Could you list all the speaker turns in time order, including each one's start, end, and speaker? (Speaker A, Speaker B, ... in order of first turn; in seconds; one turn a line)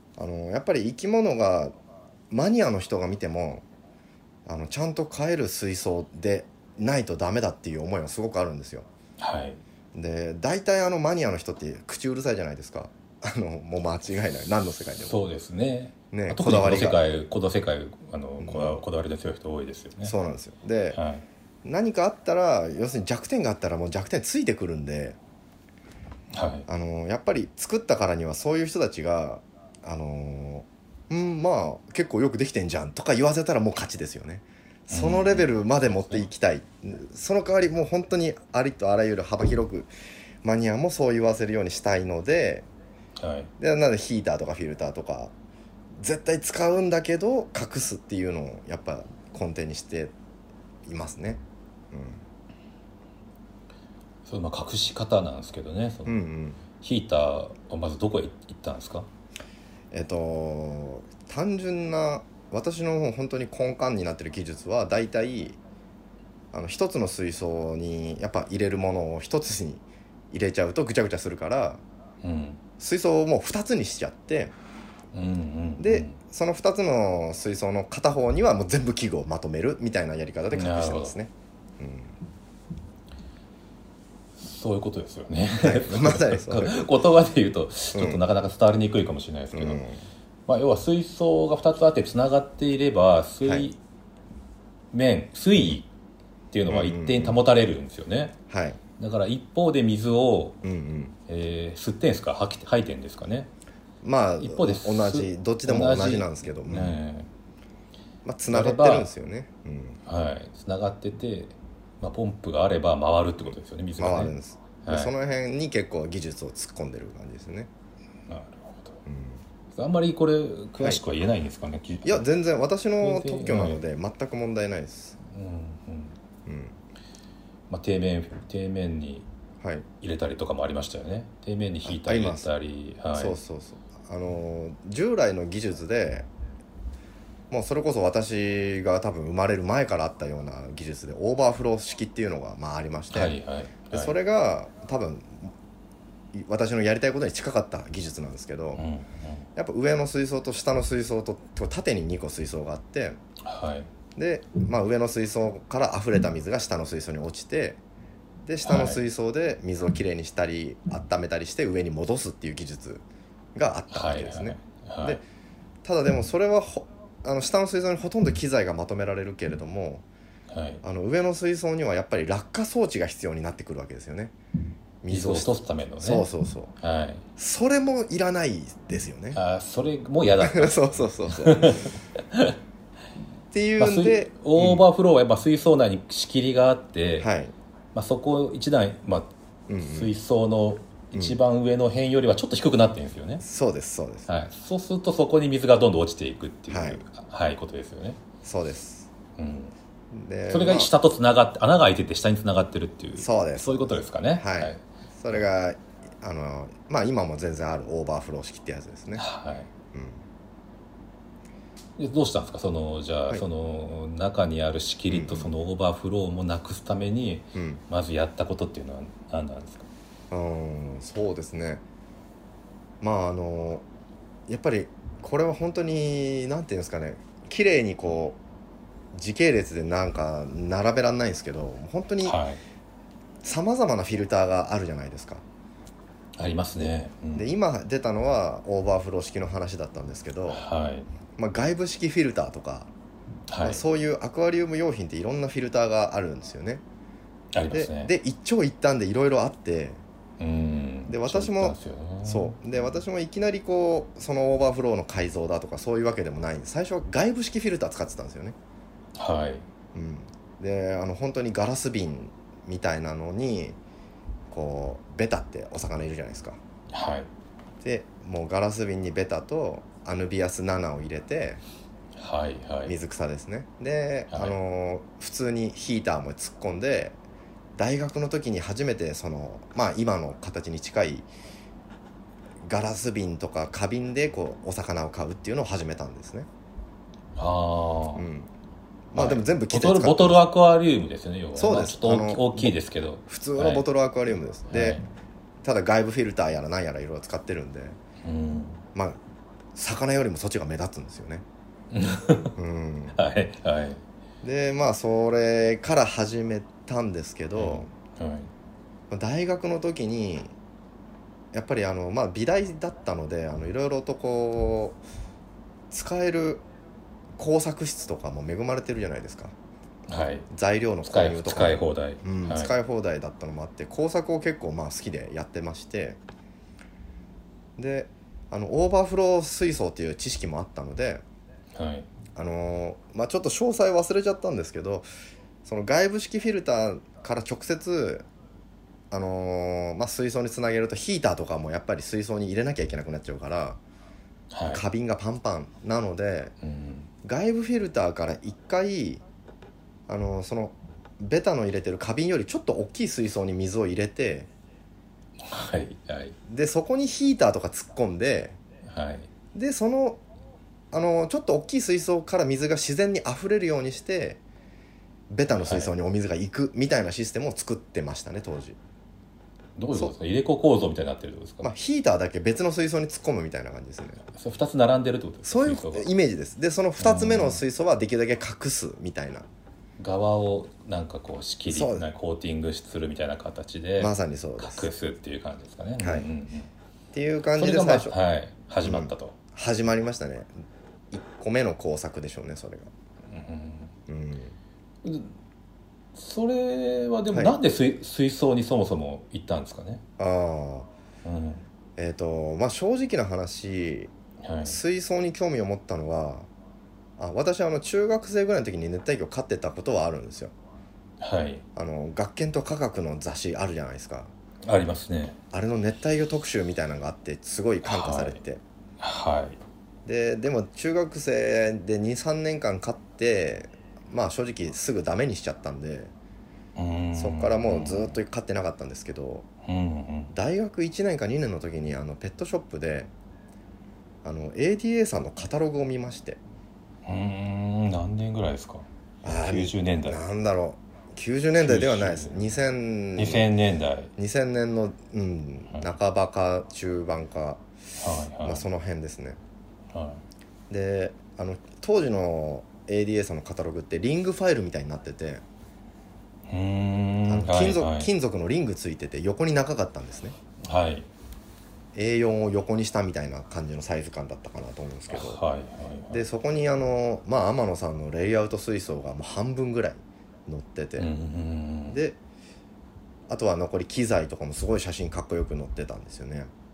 Speaker A: 0.2-1.7
Speaker A: 2.3-3.6
Speaker A: 4.5-8.9
Speaker B: 9.2-9.6
Speaker A: 9.9-15.2
Speaker B: 15.0-20.1
Speaker A: 16.1-17.0
Speaker A: 18.4-18.8
Speaker A: 20.0-21.0
Speaker B: 20.9-21.2
Speaker A: 21.6-25.2
Speaker B: 26.3-26.7
Speaker A: 26.7-39.9
Speaker B: 34.9-36.2
Speaker A: 40.4-42.7
Speaker B: 43.2-43.5
Speaker A: 43.6-45.3
Speaker A: 46.0-50.1
Speaker A: 50.9-51.4
Speaker A: 51.9-52.2
Speaker B: 54.2-56.2
Speaker A: 56.0-56.6
Speaker B: 56.8-59.1
Speaker A: 59.9-65.6
Speaker A: 66.5-71.8
Speaker B: 72.2-72.6
Speaker A: 72.8-74.5
Speaker B: 75.1-76.2
Speaker A: 75.8-82.1
Speaker B: 80.5-81.2
Speaker B: 84.4-89.8
Speaker A: 85.6-86.9
Speaker A: 87.9-88.2
Speaker A: 89.5-90.0
Speaker B: 90.5-93.8
Speaker A: 93.4-93.7
Speaker B: 94.9-95.9
Speaker B: 96.5-98.3
Speaker A: 96.7-97.4
Speaker A: 98.5-98.8
Speaker B: 99.0-100.6
Speaker A: 100.6-101.1
Speaker B: 101.2-103.5
Speaker A: 104.0-107.0
Speaker B: 104.4-107.3
Speaker A: 108.2-110.0
Speaker B: 108.5-109.1
Speaker B: 110.0-114.3
Speaker A: 114.0-117.7
Speaker B: 114.8-115.1
Speaker B: 118.3-119.0
Speaker A: 119.0-119.4
Speaker B: 119.7-122.2
Speaker A: 122.0-125.2
Speaker B: 123.0-123.8
Speaker B: 125.2-126.2
Speaker A: 126.5-126.7
Speaker B: 127.7-129.2
Speaker A: 129.6-129.8
Speaker B: 130.0-133.4
Speaker A: 131.8-132.5
Speaker A: 133.1-136.3
Speaker A: 137.5-143.4
Speaker B: 143.1-144.1
Speaker A: 143.9-145.5
Speaker A: 146.3-148.8
Speaker B: 148.8-149.4
Speaker A: 149.6-153.2
Speaker B: 153.4-153.9
Speaker A: 154.2-157.8
Speaker A: 158.4-163.0
Speaker B: 158.6-159.0
Speaker A: 163.5-165.2
Speaker B: 163.9-165.2
Speaker A: 165.8-170.0
Speaker B: 170.5-170.8
Speaker A: 170.8-174.3
Speaker A: 175.0-176.7
Speaker B: 175.1-176.3
Speaker B: 176.8-177.2
Speaker A: 177.4-179.4
Speaker B: 179.3-182.6
Speaker A: 180.4-181.9
Speaker A: 183.5-184.8
Speaker B: 183.8-187.3
Speaker A: 187.2-187.5
Speaker B: 187.9-193.4
Speaker A: 189.7-190.1
Speaker A: 193.4-194.3
Speaker B: 194.3-198.2
Speaker A: 196.7-197.0
Speaker A: 198.4-199.1
Speaker B: 199.4-199.7
Speaker A: 200.1-200.9
Speaker B: 200.5-204.8
Speaker A: 203.2-209.2
Speaker B: 209.2-209.7
Speaker A: 209.9-210.2
Speaker B: 212.0-219.9
Speaker A: 215.1-215.5
Speaker A: 217.5-217.8
Speaker A: 220.3-221.8
Speaker A: 223.0-223.8
Speaker A: 224.5-228.4
Speaker A: 229.1-232.4
Speaker B: 232.2-232.6
Speaker A: 233.4-235.4
Speaker B: 236.4-237.5
Speaker A: 236.8-240.6
Speaker B: 240.5-241.1
Speaker A: 241.4-242.9
Speaker B: 243.5-243.8
Speaker A: 243.6-246.8
Speaker B: 247.5-248.1
Speaker A: 247.7-250.0
Speaker B: 250.4-252.6
Speaker A: 251.1-258.6
Speaker B: 259.1-259.6
Speaker A: 259.9-263.8
Speaker A: 264.5-266.6
Speaker B: 266.9-267.3
Speaker A: 267.8-271.6
Speaker B: 272.1-272.9
Speaker A: 272.9-277.2
Speaker B: 274.3-274.6
Speaker A: 277.8-281.3
Speaker A: 282.6-286.5
Speaker B: 287.4-288.2
Speaker A: 288.1-288.5
Speaker A: 289.1-290.4
Speaker B: 289.1-293.9
Speaker A: 291.6-295.0
Speaker B: 294.7-295.0
Speaker A: 295.6-298.0
Speaker B: 298.2-298.8
Speaker A: 299.7-301.4
Speaker B: 301.9-302.6
Speaker A: 302.6-303.2
Speaker B: 303.1-304.0
Speaker A: 304.4-307.9
Speaker B: 307.5-308.5
Speaker A: 309.1-310.5
Speaker A: 311.5-315.0
Speaker A: 315.9-316.6
Speaker A: 317.4-319.5
Speaker B: 320.1-320.5
Speaker A: 320.5-326.2
Speaker B: 321.0-322.7
Speaker A: 327.8-331.2
Speaker B: 331.7-332.1
Speaker A: 332.3-335.1
Speaker A: 335.6-338.2
Speaker A: 339.1-343.8
Speaker B: 344.5-344.8
Speaker A: 344.7-346.5
Speaker B: 346.6-347.1
Speaker A: 347.2-349.2
Speaker A: 350.1-354.5
Speaker B: 355.4-356.4
Speaker A: 356.5-358.6
Speaker B: 358.9-359.3
Speaker A: 359.5-360.2
Speaker A: 360.9-364.4
Speaker A: 365.3-368.8
Speaker B: 365.5-365.9
Speaker B: 369.8-371.7
Speaker A: 371.6-374.2
Speaker B: 374.3-376.1
Speaker A: 375.4-379.4
Speaker B: 377.0-377.6
Speaker B: 380.0-386.7
Speaker A: 381.7-382.1
Speaker A: 384.0-384.9
Speaker A: 386.0-386.3
Speaker A: 387.1-388.1
Speaker B: 387.6-389.3
Speaker A: 388.8-390.5
Speaker A: 391.1-392.9
Speaker B: 393.3-393.9
Speaker A: 394.1-394.6
Speaker B: 395.0-395.3
Speaker B: 396.1-400.0
Speaker A: 397.3-397.6
Speaker A: 400.2-400.9
Speaker B: 401.2-401.6
Speaker A: 402.0-404.1
Speaker B: 404.4-404.8
Speaker A: 404.6-406.5
Speaker A: 407.2-410.5
Speaker B: 411.2-411.6
Speaker A: 411.7-414.3
Speaker B: 414.7-415.4
Speaker A: 415.5-418.6
Speaker B: 417.8-418.4
Speaker B: 419.0-419.6
Speaker A: 420.0-426.1
Speaker B: 426.8-428.1
Speaker A: 427.1-429.5
Speaker B: 429.6-430.3
Speaker A: 430.3-433.1
Speaker A: 434.2-436.4
Speaker B: 437.0-440.2
Speaker A: 439.2-443.5
Speaker B: 441.6-442.5
Speaker B: 443.2-444.1
Speaker A: 444.2-447.6
Speaker B: 448.0-448.6
Speaker A: 448.4-449.4
Speaker B: 449.9-450.2
Speaker A: 450.7-455.4
Speaker B: 456.5-458.1
Speaker A: 457.3-460.4
Speaker B: 460.6-461.1
Speaker A: 461.9-465.4
Speaker B: 465.1-466.2
Speaker A: 466.1-471.1
Speaker B: 471.0-472.0
Speaker A: 471.9-472.2
Speaker A: 473.3-476.5